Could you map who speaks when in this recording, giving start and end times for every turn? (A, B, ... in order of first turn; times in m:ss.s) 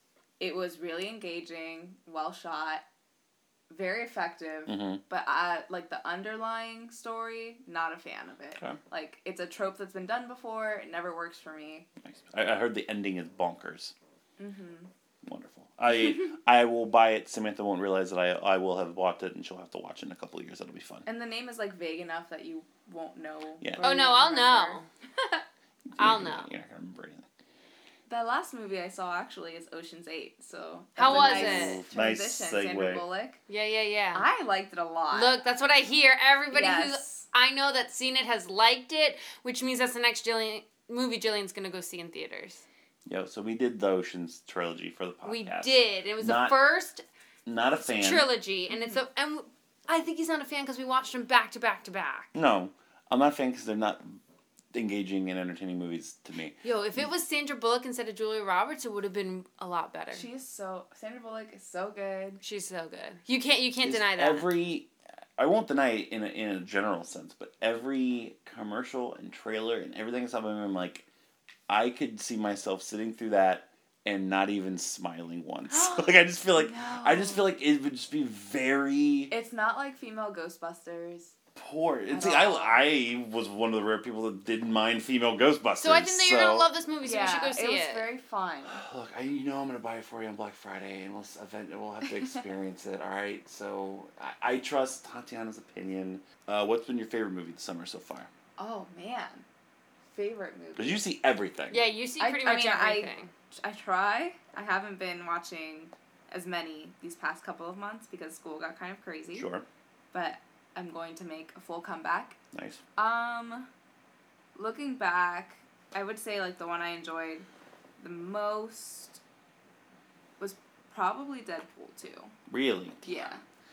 0:00.4-0:02.8 A
0:03.7-0:11.9 A
0:04.7-0:05.0 B
0:12.0-0:13.9 B
0:14.4-0:14.9 A
0:15.2-0:21.1 B
0:21.0-0:25.4 A
0:23.8-0:24.9 C
0:25.9-0:27.3 B
0:26.0-0:26.5 C
0:28.1-0:33.4 A
0:31.0-0:31.8 C
0:31.0-0:33.0 B
0:33.5-0:34.3 C
0:34.1-0:35.4 A
0:35.1-0:42.6 C
0:36.5-0:37.2 A
0:43.1-0:46.6 B
0:45.2-0:47.0 C
0:47.4-0:48.3 B
0:47.8-0:52.3 C
0:52.3-0:54.2 B
0:54.7-0:57.0 B
0:56.6-1:00.2 C
1:00.1-1:02.4 A
1:02.4-1:04.5 C
1:03.8-1:11.0 B
1:11.7-1:19.3 B
1:15.7-1:17.4 A
1:19.3-1:21.3 A
1:21.6-1:26.7 B
1:22.1-1:22.8 A
1:25.8-1:28.1 C
1:27.0-1:28.8 A
1:28.7-1:38.3 B
1:38.6-1:39.4 A
1:40.1-1:41.0 A
1:40.8-1:41.8 B
1:41.7-1:43.3 C
1:42.2-1:49.5 A
1:49.3-1:49.6 B
1:50.1-1:52.4 A
1:52.5-1:52.8 B
1:53.0-1:53.7 A
1:54.5-1:57.5 A
1:58.0-1:59.2 A
2:00.4-2:02.3 A
2:02.5-2:03.2 B
2:03.0-2:03.4 A